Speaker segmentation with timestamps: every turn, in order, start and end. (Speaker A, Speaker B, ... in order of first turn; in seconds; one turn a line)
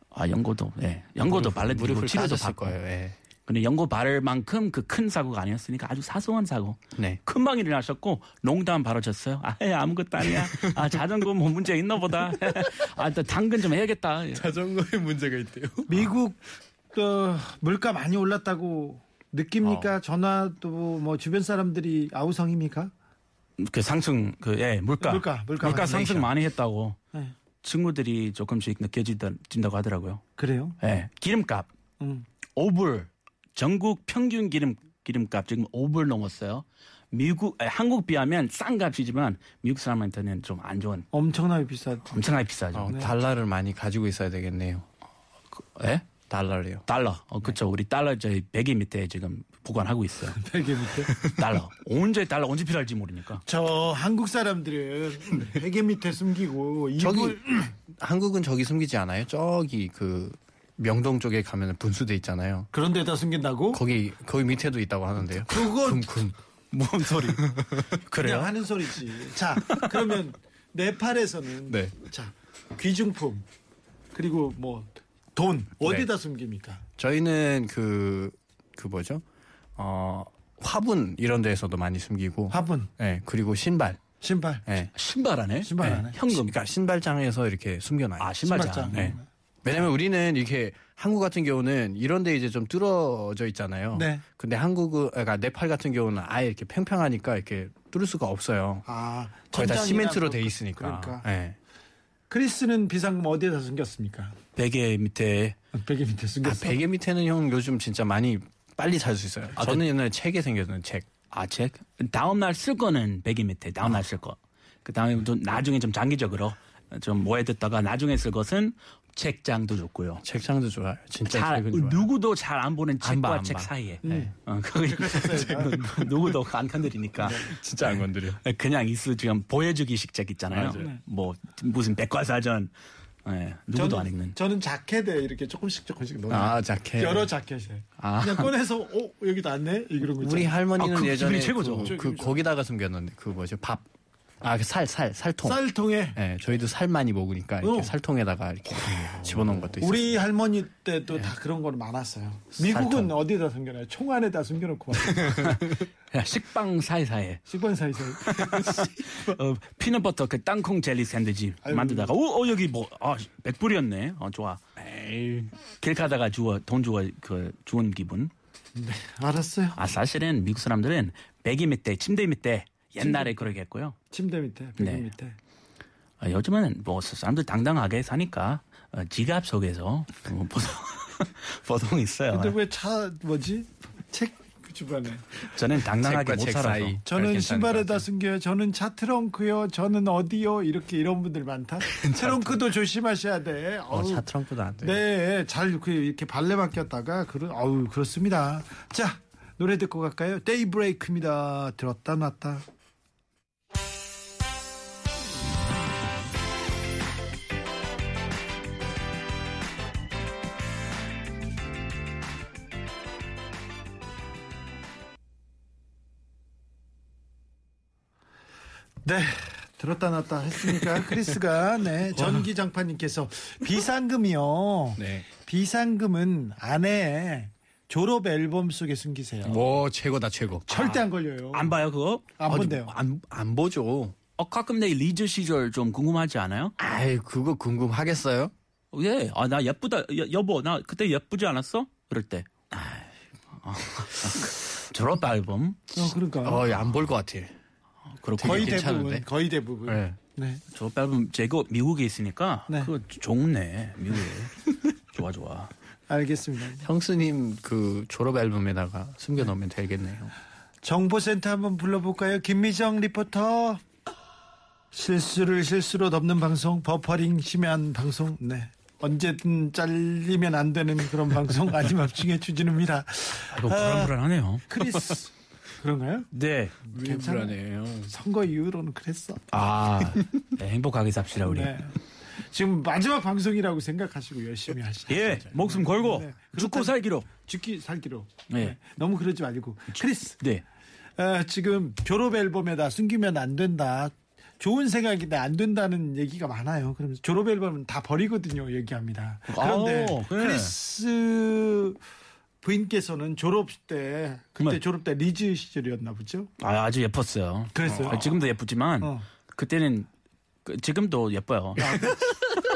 Speaker A: 0.1-2.8
Speaker B: 1.2-3.1
Speaker A: 3.5-14.4
Speaker B: 6.9-7.2
Speaker B: 10.2-11.0
Speaker B: 12.1-12.8
Speaker B: 14.3-16.1
Speaker C: 15.9-16.4
Speaker C: 16.9-22.9
Speaker B: 19.6-19.9
Speaker A: 23.6-27.0
Speaker C: 25.0-26.3
Speaker A: 27.6-30.2
Speaker C: 30.4-30.8
Speaker A: 30.8-31.7
Speaker C: 32.0-32.2
Speaker A: 32.5-41.1
Speaker C: 41.1-42.2
Speaker A: 42.1-42.9
Speaker B: 42.7-44.9
Speaker A: 45.5-46.0
Speaker B: 46.3-46.8
Speaker A: 46.9-50.4
Speaker C: 50.3-51.2
Speaker A: 51.3-53.4
Speaker C: 53.5-57.7
Speaker B: 57.0-62.7
Speaker C: 62.7-63.8
Speaker B: 63.7-66.4
Speaker C: 65.5-66.1
Speaker A: 66.7-68.6
Speaker B: 67.2-67.9
Speaker C: 68.2-73.4
Speaker B: 71.7-71.9
Speaker C: 74.1-76.8
Speaker B: 77.0-79.2
Speaker B: 79.8-84.0
Speaker A: 79.8-80.3
Speaker C: 82.5-82.9
Speaker C: 84.2-84.6
Speaker B: 84.7-84.9
Speaker A: 84.9-86.5
Speaker C: 85.6-86.2
Speaker B: 85.8-88.4
Speaker A: 88.2-89.1
Speaker C: 88.4-89.2
Speaker B: 88.9-98.8
Speaker C: 93.9-94.2
Speaker C: 98.8-101.2
Speaker B: 99.5-101.6
Speaker C: 102.3-104.3
Speaker A: 104.5-105.6
Speaker C: 105.7-106.8
Speaker B: 106.4-111.1
Speaker A: 109.6-109.8
Speaker A: 111.3-120.2
Speaker B: 120.2-122.1
Speaker A: 121.3-132.7
Speaker B: 123.0-124.1
Speaker C: 124.0-124.3
Speaker C: 124.8-125.9
Speaker B: 125.3-126.0
Speaker B: 127.2-128.4
Speaker B: 130.5-130.9
Speaker A: 133.2-134.3
Speaker C: 133.7-140.6
Speaker B: 136.3-137.3
Speaker A: 138.0-138.5
Speaker B: 140.1-143.8
Speaker A: 140.8-141.9
Speaker C: 141.8-142.4
Speaker B: 144.4-150.2
Speaker C: 145.4-146.2
Speaker C: 147.6-147.9
Speaker A: 148.8-149.3
Speaker C: 149.8-155.6
Speaker A: 152.7-153.1
Speaker B: 155.1-155.4
Speaker A: 155.4-157.4
Speaker C: 157.5-158.8
Speaker A: 158.2-164.6
Speaker C: 161.6-162.1
Speaker B: 164.8-165.5
Speaker A: 165.8-168.3
Speaker C: 168.8-169.8
Speaker A: 169.8-174.0
Speaker C: 173.0-173.5
Speaker C: 174.1-175.4
Speaker A: 174.8-175.1
Speaker A: 176.2-182.6
Speaker C: 182.3-185.3
Speaker A: 185.4-187.0
Speaker B: 185.8-188.1
Speaker C: 187.1-194.2
Speaker B: 191.9-192.6
Speaker B: 193.9-195.0
Speaker C: 194.8-202.6
Speaker C: 219.0-229.6
Speaker B: 222.1-222.5
Speaker B: 225.0-225.2
Speaker B: 229.4-231.0
Speaker C: 230.7-231.8
Speaker A: 231.5-232.7
Speaker C: 232.4-232.9
Speaker B: 232.5-234.2
Speaker A: 234.4-236.7
Speaker B: 236.8-238.5
Speaker A: 238.9-242.6
Speaker A: 243.6-245.9
Speaker C: 245.9-246.6
Speaker B: 246.4-247.5
Speaker A: 248.1-248.9
Speaker B: 248.3-249.3
Speaker C: 248.4-250.6
Speaker B: 249.8-250.2
Speaker A: 250.7-255.7
Speaker C: 256.1-256.8
Speaker B: 256.8-260.3
Speaker C: 260.8-263.8
Speaker C: 264.9-274.1
Speaker A: 273.5-274.7
Speaker C: 274.7-276.3
Speaker A: 276.3-276.7
Speaker C: 276.9-277.5
Speaker B: 276.9-278.1
Speaker C: 278.1-279.4
Speaker A: 279.5-281.7
Speaker C: 281.4-290.4
Speaker A: 285.1-287.3
Speaker A: 288.5-288.8
Speaker A: 289.9-290.6
Speaker C: 291.2-302.0
Speaker A: 299.5-300.7
Speaker C: 302.6-306.5
Speaker A: 306.6-310.1
Speaker C: 307.7-308.3
Speaker B: 307.8-308.2
Speaker C: 309.0-309.2
Speaker A: 310.6-312.1
Speaker C: 311.8-312.2